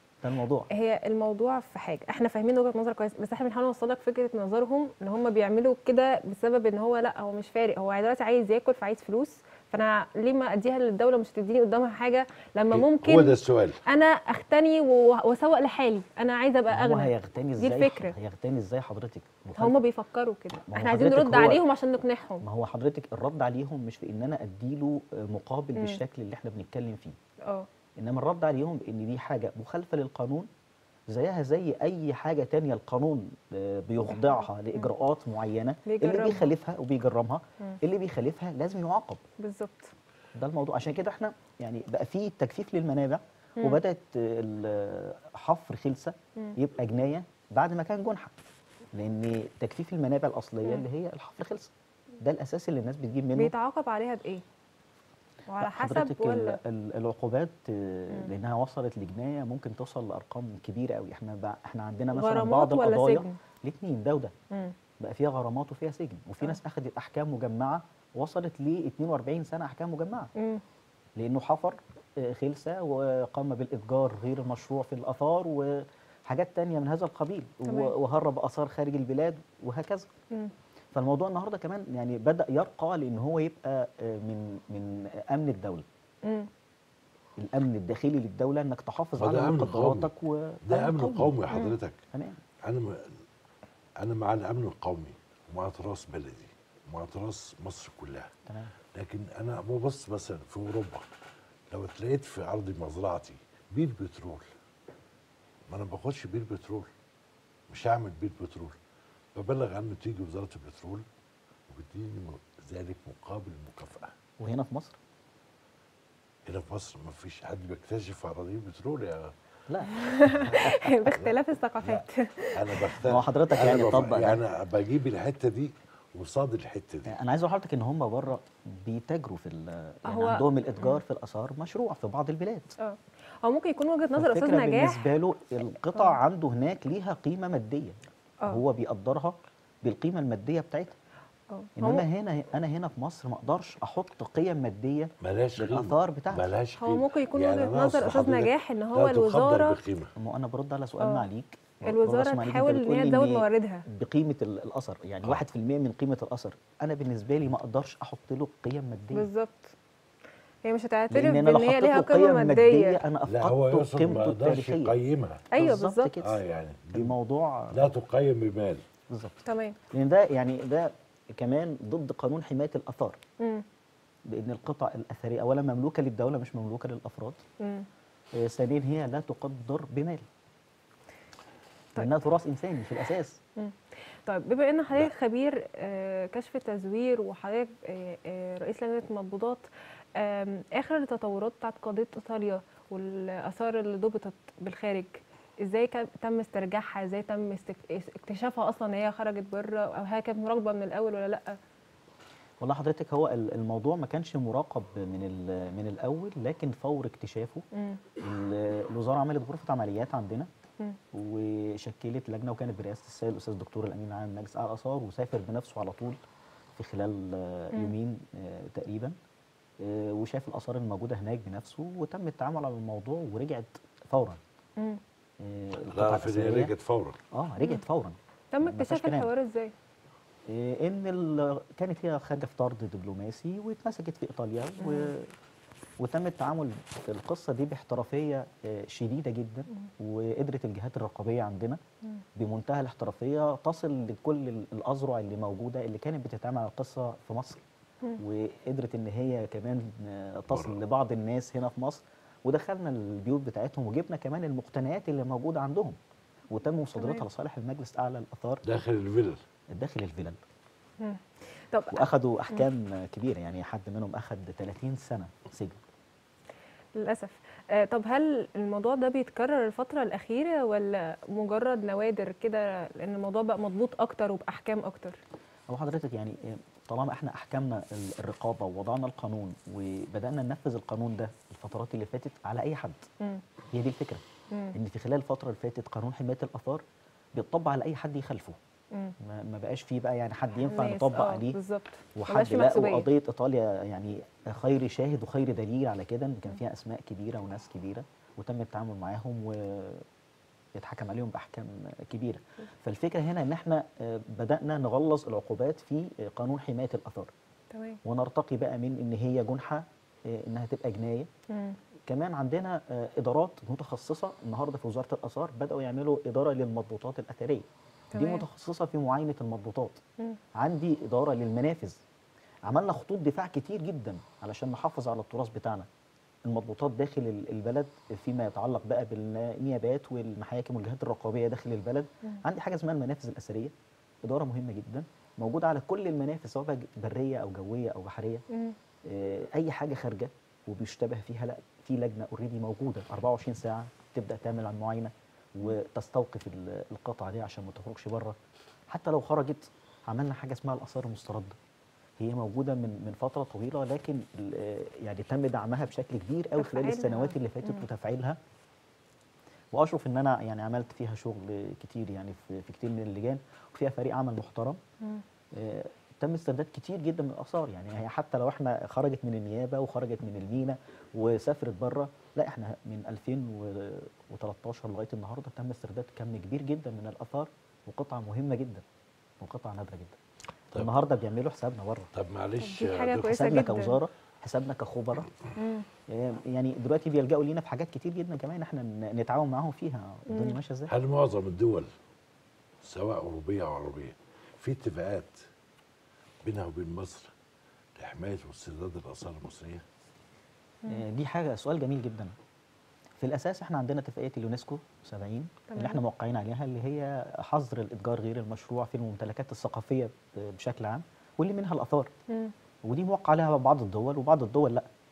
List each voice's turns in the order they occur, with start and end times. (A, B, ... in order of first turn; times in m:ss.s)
0:00.2-0:00.7 A
0:00.7-0:18.2 B
0:12.7-0:13.8 C
0:16.7-0:19.8 A
0:19.6-0:22.4 B
0:20.6-0:21.6 A
0:22.4-0:27.2 A
0:28.0-0:30.5 A
0:31.1-0:39.2 A
0:34.1-0:34.9 B
0:35.9-0:36.5 B
0:39.4-0:39.9 B
0:40.4-0:48.4 A
0:48.9-0:53.5 A
0:53.4-0:54.4 B
0:55.5-0:56.6 B
0:55.6-1:04.3 A
1:02.1-1:03.4 B
1:05.0-1:10.3 A
1:10.4-1:10.6 B
1:11.2-1:20.1 A
1:17.7-1:17.9 B
1:20.9-1:25.9 A
1:27.4-1:31.4 A
1:29.2-1:30.1 C
1:30.7-1:32.0 C
1:31.5-1:31.8 B
1:32.1-1:32.4 A
1:32.6-1:33.0 C
1:34.0-1:38.3 C
1:38.5-1:38.7 A
1:39.0-1:41.1 C
1:41.7-1:44.5 C
1:45.7-1:46.9 C
1:47.7-1:48.8 C
1:49.4-1:51.0 C
1:51.7-1:54.1 C
1:54.4-1:55.0 A
1:56.5-1:59.3 C
1:59.7-2:01.1 A
1:59.9-2:02.8 B
2:01.2-2:07.2 C
2:03.0-2:04.4 A
2:07.1-2:12.7 A
2:10.1-2:11.0 B
2:12.8-2:15.1 B
2:14.2-2:21.0 A
2:21.5-2:22.1 B
2:21.8-2:26.5 A
2:25.2-2:30.1 C
2:26.8-2:29.8 B
2:30.2-2:39.3 A
2:31.0-2:31.3 B
2:31.9-2:33.9 B
2:39.1-2:39.8 B
2:40.6-2:43.0 B
2:41.1-2:45.0 A
2:43.3-2:45.5 C
2:45.5-2:46.1 B
2:45.6-2:46.4 A
2:46.2-2:47.2 C
2:46.9-2:47.9 A
2:47.7-2:48.8 C
2:49.1-2:53.2 A
2:49.5-2:49.8 B
2:53.4-2:53.6 B
2:54.3-2:57.4 A
2:57.6-2:57.9 B
2:58.3-3:00.3 A
3:02.0-3:03.4 A
3:03.6-3:21.6 B
3:22.6-3:27.6 A
3:27.7-3:28.0 B
3:28.2-3:30.5 A
3:31.1-3:36.2 A
3:36.8-3:39.2 A
3:39.8-3:44.4 A
3:45.4-3:46.7 A
3:45.9-3:47.2 C
3:47.3-3:49.3 A
3:48.5-3:49.7 B
3:50.5-3:55.3 A
3:54.8-3:55.1 B
3:56.0-4:01.8 A
4:02.4-4:07.6 A
4:08.2-4:16.0 A
4:10.5-4:10.8 C
4:16.5-4:18.6 A
4:17.0-4:17.2 B
4:18.6-4:19.4 C
4:19.7-4:20.4 A
4:21.0-4:22.6 B
4:21.9-4:25.8 A
4:27.0-4:35.2 B
4:35.7-4:43.0 A
4:43.7-4:44.2 A
4:44.8-4:46.8 A
4:47.4-4:48.6 A
4:49.2-4:51.6 A
4:50.7-4:53.1 B
4:52.2-5:00.1 A
5:00.8-5:07.3 A
5:07.7-5:08.0 B
5:08.0-5:11.3 A
5:11.5-5:11.8 B
5:12.1-5:20.0 A
5:18.1-5:18.4 B
5:20.6-5:22.0 A
5:22.7-5:25.9 A
5:26.5-5:33.7 A
5:34.2-5:38.4 A
5:38.5-5:38.8 B
5:39.0-5:48.4 A
5:48.9-5:51.6 A
5:52.2-5:58.4 A
5:56.6-5:57.9 B
5:59.7-6:04.8 A
6:05.5-6:18.8 A
6:19.4-6:20.2 A
6:20.7-6:22.1 A
6:22.1-6:23.3 C
6:22.6-6:24.0 B
6:23.2-6:25.3 A
6:25.6-6:25.9 B
6:26.1-6:30.9 A
6:30.3-6:30.6 B
6:30.9-6:31.9 C
6:32.8-6:35.4 C
6:36.4-6:37.3 C
6:38.0-6:39.8 C
6:40.9-6:42.3 A
6:43.2-6:52.1 A
6:45.7-6:46.0 B
6:52.8-6:54.9 A